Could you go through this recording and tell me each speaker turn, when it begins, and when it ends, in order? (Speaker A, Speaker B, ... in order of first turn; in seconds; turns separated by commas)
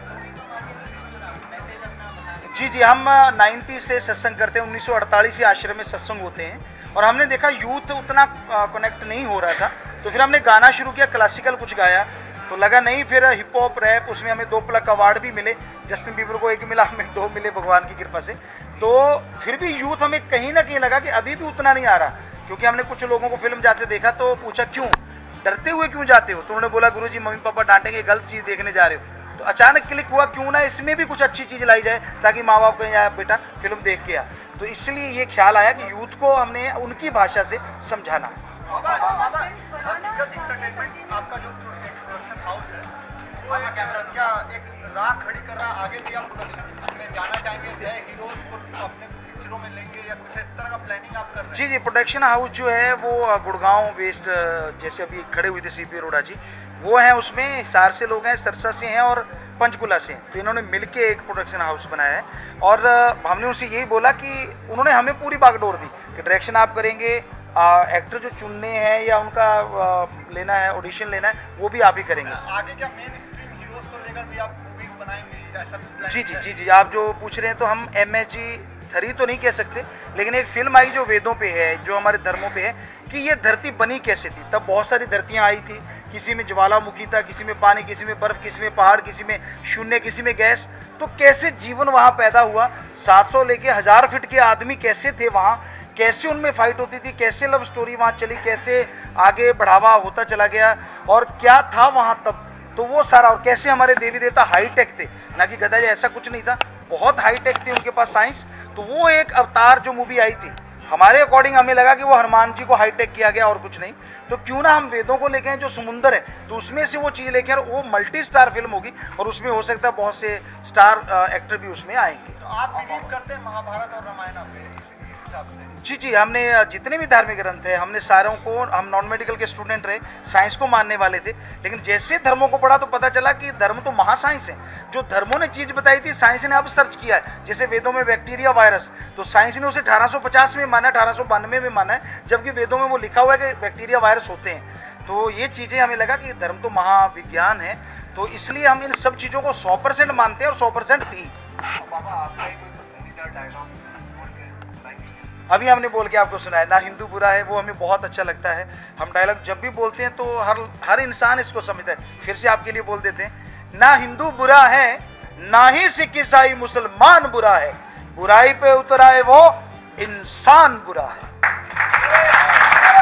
Speaker A: 2.4-38.4, Speaker B: 38.7-51.7, Speaker A: 51.5-72.4, Speaker B: 72.2-76.5, Speaker A: 76.0-123.1, Speaker B: 122.4-125.7, Speaker A: 125.8-151.3, Speaker B: 152.1-153.7, Speaker A: 155.5-171.2